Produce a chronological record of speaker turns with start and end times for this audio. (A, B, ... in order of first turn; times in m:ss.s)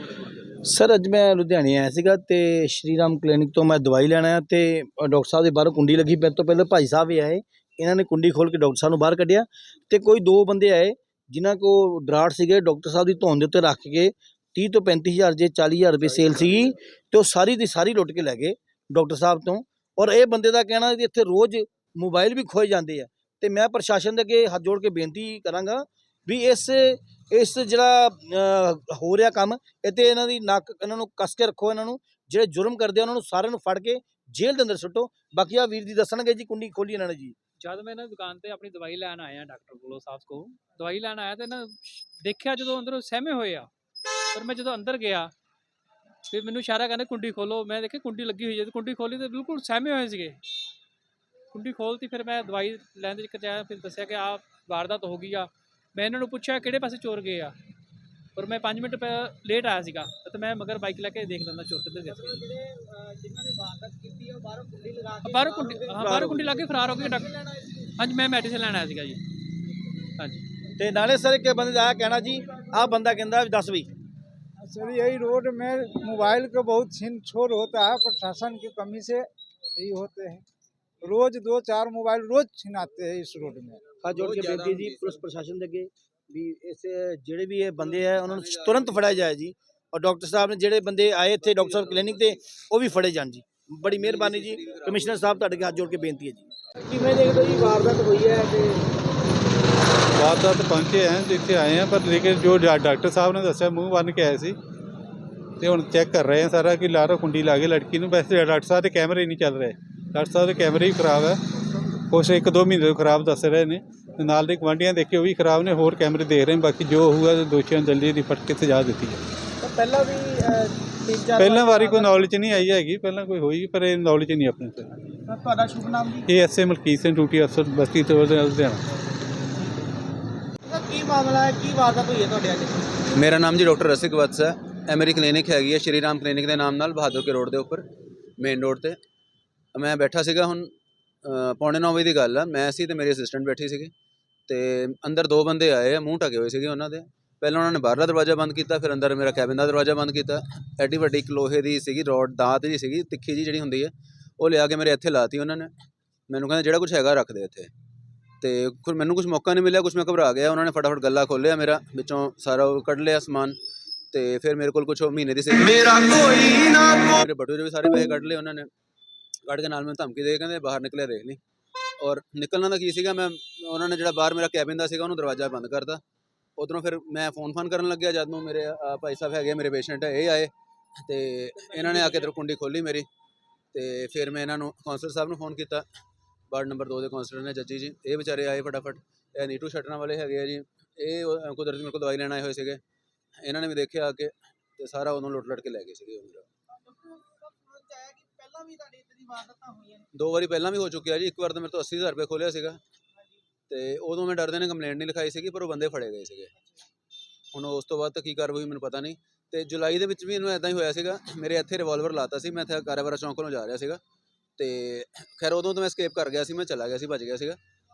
0:00.6-0:37.4 A
0:37.6-0:43.7 B
0:44.3-0:45.3 B
0:46.3-0:50.4 B
0:51.5-0:57.5 B
0:58.4-1:02.5 B
1:02.1-1:07.6 C
1:05.2-1:07.3 B
1:06.0-1:06.3 A
1:08.0-1:09.2 B
1:10.8-1:13.9 A
1:14.6-1:20.4 D
1:21.0-1:23.9 D
1:24.0-1:36.5 A
1:28.6-1:28.9 E
1:33.9-1:35.3 E
1:36.8-1:38.9 C
1:40.2-1:44.6 F
1:45.6-1:51.4 F
1:52.1-1:59.2 F
1:59.6-2:02.6 C
2:01.4-2:04.9 F
2:05.2-2:06.3 C
2:06.3-2:08.8 F
2:10.6-2:13.0 C
2:13.1-2:17.8 E
2:18.4-2:19.0 E
2:19.7-2:20.7 E
2:21.2-2:23.9 E
2:24.5-2:35.7 E
2:36.3-2:37.7 E
2:38.4-2:43.6 E
2:44.1-2:48.7 E
2:49.5-2:51.4 E
2:52.0-2:56.0 E
2:56.6-3:03.1 E
3:03.7-3:05.9 E
3:06.5-3:12.8 E
3:13.4-3:16.5 E
3:16.8-3:20.1 C
3:20.1-3:22.8 E
3:23.7-3:26.5 E
3:27.5-3:34.0 E
3:34.6-3:37.6 E